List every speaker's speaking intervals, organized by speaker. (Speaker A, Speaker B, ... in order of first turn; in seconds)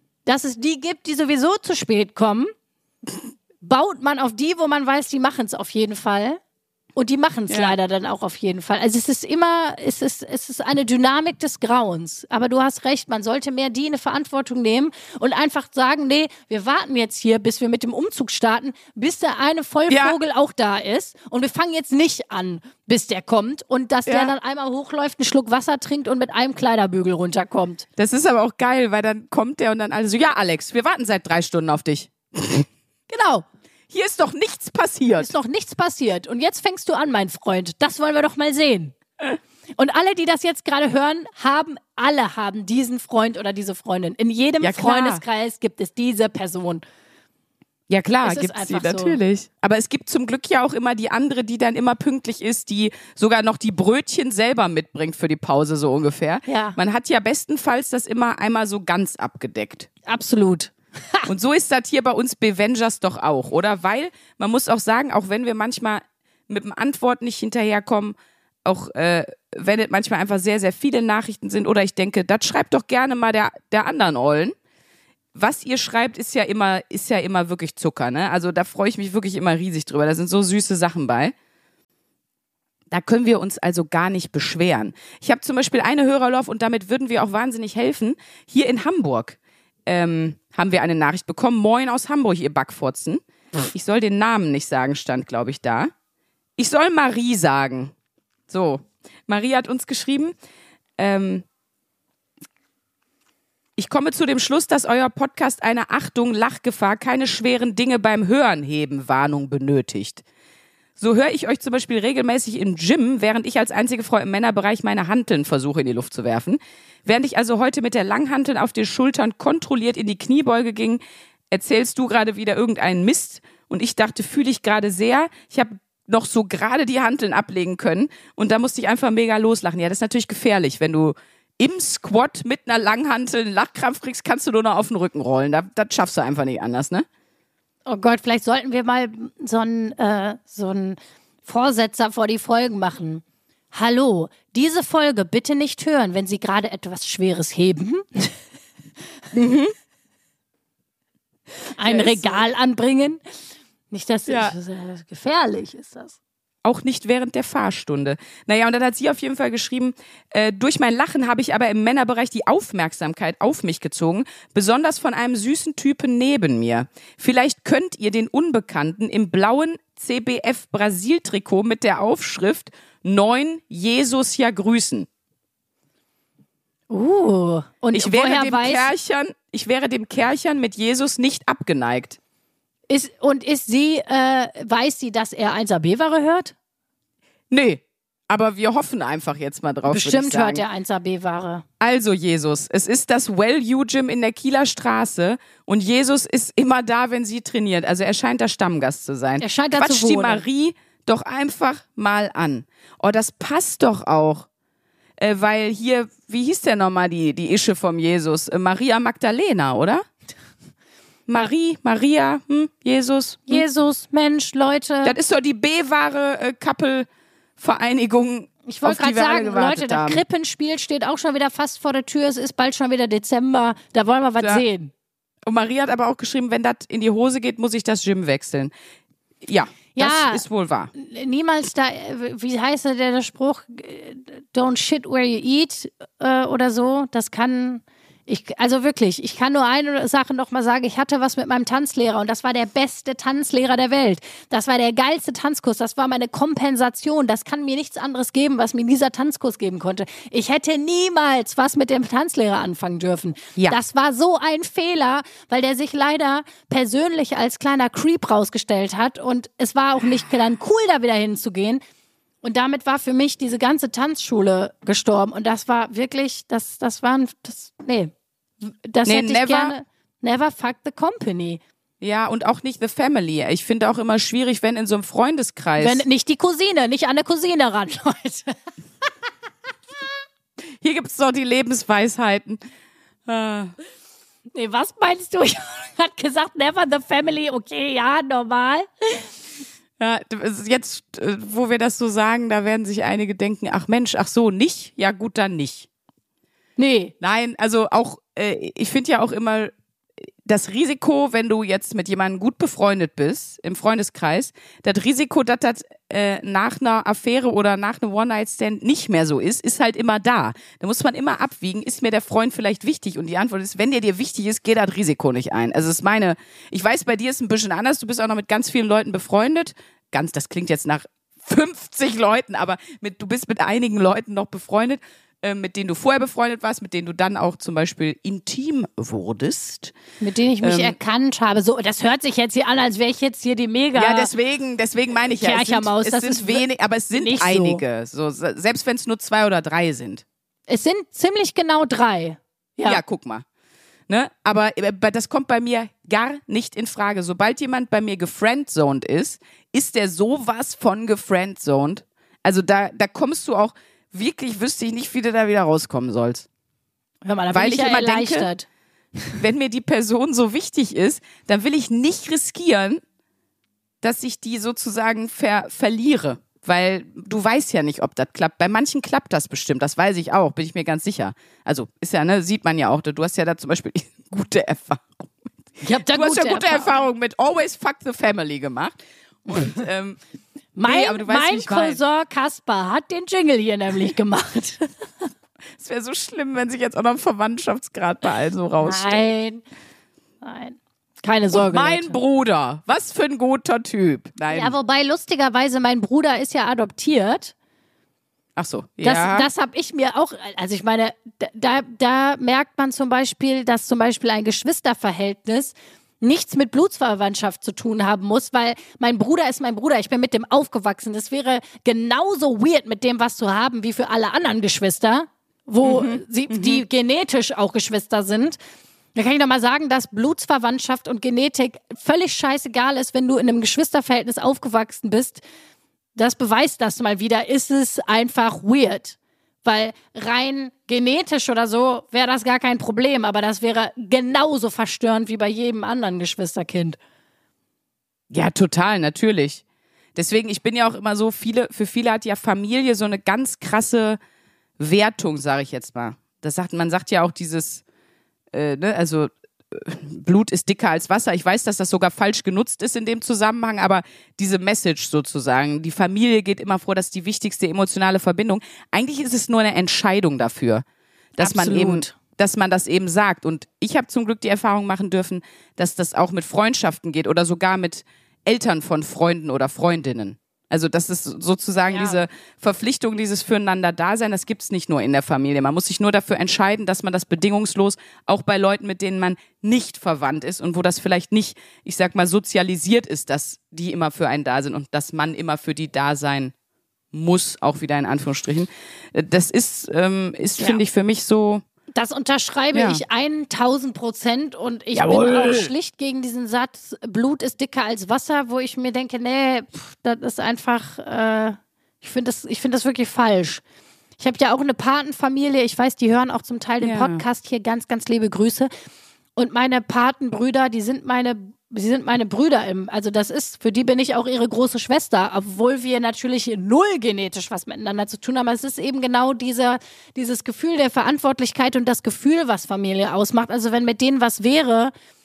Speaker A: 0.3-2.5, 3.6-6.4, 7.0-27.9, 33.1-33.5, 35.2-38.9, 39.8-46.8, 48.2-49.2, 56.5-56.8, 60.1-61.3, 137.9-148.3, 151.8-153.2, 153.9-156.2, 176.9-178.9, 182.9-186.6, 189.9-191.7, 199.4-200.4, 213.5-215.2, 218.7-224.9, 229.9-230.4, 230.9-261.8, 262.4-268.1, 268.6-271.6, 275.8-278.6, 284.6-289.3, 296.8-297.1, 330.2-334.3, 335.4-337.8, 340.7-343.0, 357.2-358.7, 375.8-376.9, 379.5-379.7, 380.8-384.9, 388.8-389.6, 390.4-392.2, 394.5-397.5, 399.0-418.6, 419.1-425.4, 426.2-437.0, 461.4-462.1, 471.9-472.2, 491.9-503.6, 504.2-508.7, 509.4-524.9
Speaker B: 7.5-7.8, 19.9-20.2, 24.1-24.3, 28.0-32.7, 33.9-35.3, 44.6-45.2, 47.9-59.9, 61.3-74.5, 75.3-81.3, 82.9-95.9, 96.6-97.9, 98.5-100.3, 101.0-101.5, 103.8-110.2, 111.0-137.1, 149.3-149.7, 151.8-152.4, 154.3-154.5, 156.7-175.1, 177.9-182.2, 187.5-190.6, 191.8-204.5, 205.2-210.1, 211.3-213.7, 215.0-220.2, 225.4-228.7, 229.4-230.9, 269.1-269.7, 272.0-276.0, 280.8-282.6, 283.3-283.7, 290.0-295.9, 297.2-299.7, 300.4-329.9, 330.6-331.0, 333.9-340.2, 342.8-343.4, 344.1-356.5, 357.5-358.5, 359.4-363.0, 364.0-375.2, 376.0-380.2, 380.9-382.0, 385.8-389.3, 391.5-394.7, 398.6-399.5, 415.8-416.8, 438.3-439.6, 440.1-444.2, 444.8-447.8, 448.5-460.8, 461.4-486.5, 487.1-491.6, 492.7-493.0, 494.9-495.7, 506.8-507.2